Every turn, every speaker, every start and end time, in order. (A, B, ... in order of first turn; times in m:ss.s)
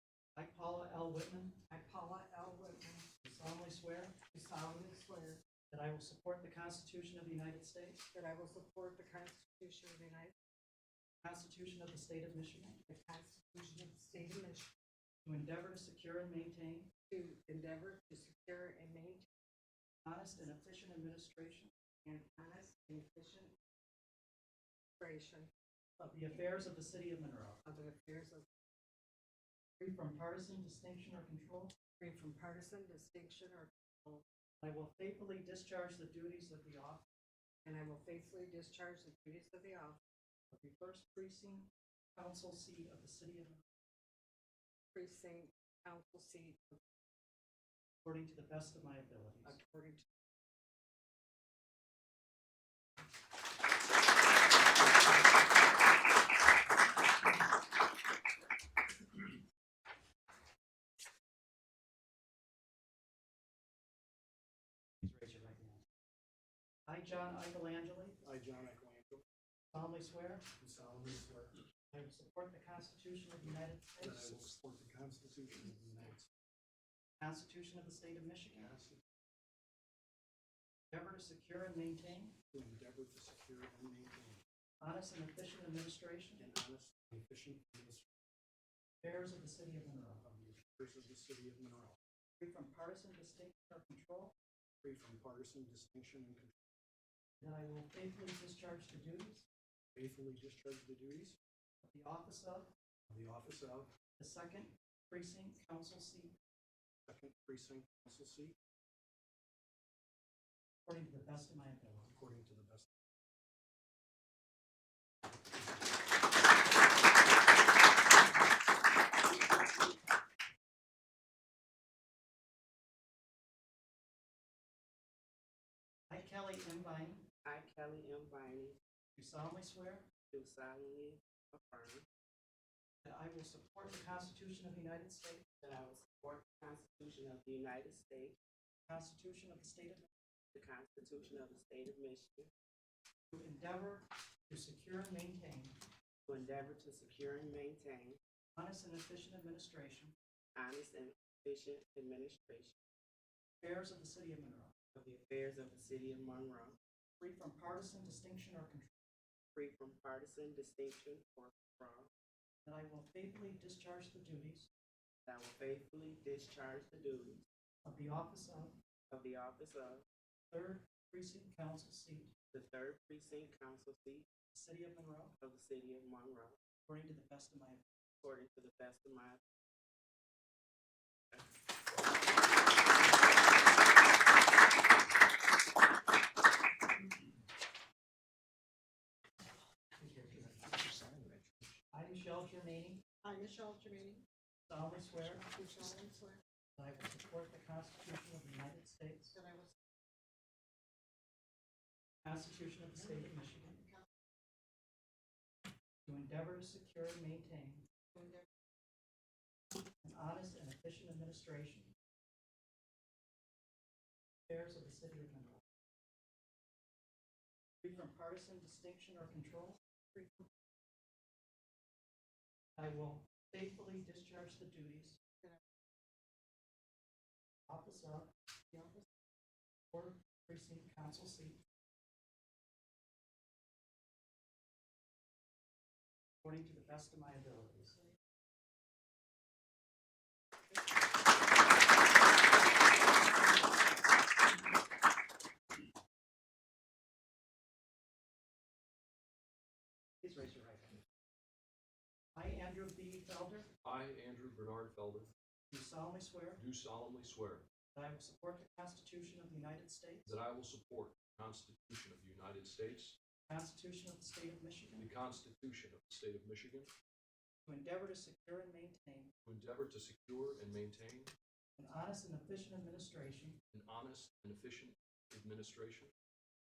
0:00.4-0:01.6 A
0:01.7-0:03.1 B
0:03.2-0:04.2 A
0:04.3-0:05.4 B
0:05.7-0:08.0 A
0:08.1-0:10.3 B
0:11.2-0:12.8 A
0:12.8-0:14.7 B
0:15.2-0:16.9 A
0:17.1-0:19.3 B
0:20.0-0:22.2 A
0:22.3-0:23.6 B
0:25.0-0:25.5 B
0:26.0-0:27.6 A
0:27.6-0:28.5 B
0:29.8-0:31.8 A
0:31.9-0:34.2 B
0:34.6-0:37.0 A
0:37.6-0:40.0 B
0:40.5-0:43.6 A
0:44.9-0:46.8 B
0:48.0-0:49.6 A
0:49.4-0:50.1 B
1:05.0-1:05.8 A
1:06.9-1:08.2 A
1:08.2-1:09.2 C
1:09.7-1:10.4 A
1:10.6-1:11.6 C
1:11.9-1:14.3 A
1:14.0-1:16.3 C
1:17.2-1:18.8 A
1:18.6-1:19.0 C
1:20.9-1:22.4 A
1:22.5-1:24.4 C
1:24.8-1:26.5 A
1:26.4-1:28.1 C
1:29.0-1:30.2 A
1:30.2-1:32.0 C
1:32.4-1:34.3 A
1:34.8-1:36.5 C
1:37.4-1:39.5 A
1:40.0-1:41.4 C
1:41.8-1:42.7 A
1:43.1-1:43.9 C
1:44.2-1:46.4 A
1:47.1-1:48.6 C
1:50.9-1:52.2 A
1:52.1-1:52.9 C
2:06.1-2:07.2 A
2:07.4-2:08.8 D
2:09.2-2:10.1 A
2:10.3-2:12.0 D
2:13.0-2:15.4 A
2:15.6-2:18.4 D
2:18.9-2:20.1 A
2:20.5-2:22.5 D
2:23.3-2:25.7 A
2:26.3-2:28.2 D
2:28.6-2:30.2 A
2:30.6-2:32.8 D
2:33.6-2:34.7 A
2:35.0-2:36.8 D
2:37.2-2:38.9 A
2:39.5-2:42.1 D
2:42.6-2:44.7 A
2:45.3-2:47.4 D
2:47.8-2:48.7 A
2:49.1-2:50.0 D
2:50.5-2:52.3 A
2:52.5-2:54.3 D
2:54.5-2:55.3 A
2:55.4-2:56.6 D
2:56.9-2:57.8 A
2:58.2-2:59.4 D
3:10.0-3:10.7 A
3:10.8-3:11.7 E
3:11.9-3:13.1 A
3:13.2-3:14.3 B
3:14.7-3:15.5 A
3:15.2-3:16.4 B
3:16.8-3:19.3 A
3:19.3-3:19.8 B
3:22.2-3:23.8 A
3:26.1-3:27.9 A
3:28.1-3:28.5 B
3:30.0-3:31.9 A
3:34.5-3:35.6 A
3:37.8-3:40.3 A
3:42.8-3:45.2 A
3:47.7-3:48.3 A
3:49.9-3:51.6 A
3:56.4-3:58.1 A
4:10.2-4:11.0 A
4:12.4-4:13.7 A
4:13.8-4:15.3 E
4:15.7-4:16.6 A
4:16.6-4:17.7 E
4:17.9-4:20.3 A
4:20.3-4:23.2 E
4:23.5-4:25.1 A
4:25.0-4:26.9 E
4:27.7-4:29.3 A
4:29.4-4:31.3 E
4:31.8-4:33.6 A
4:33.7-4:36.1 E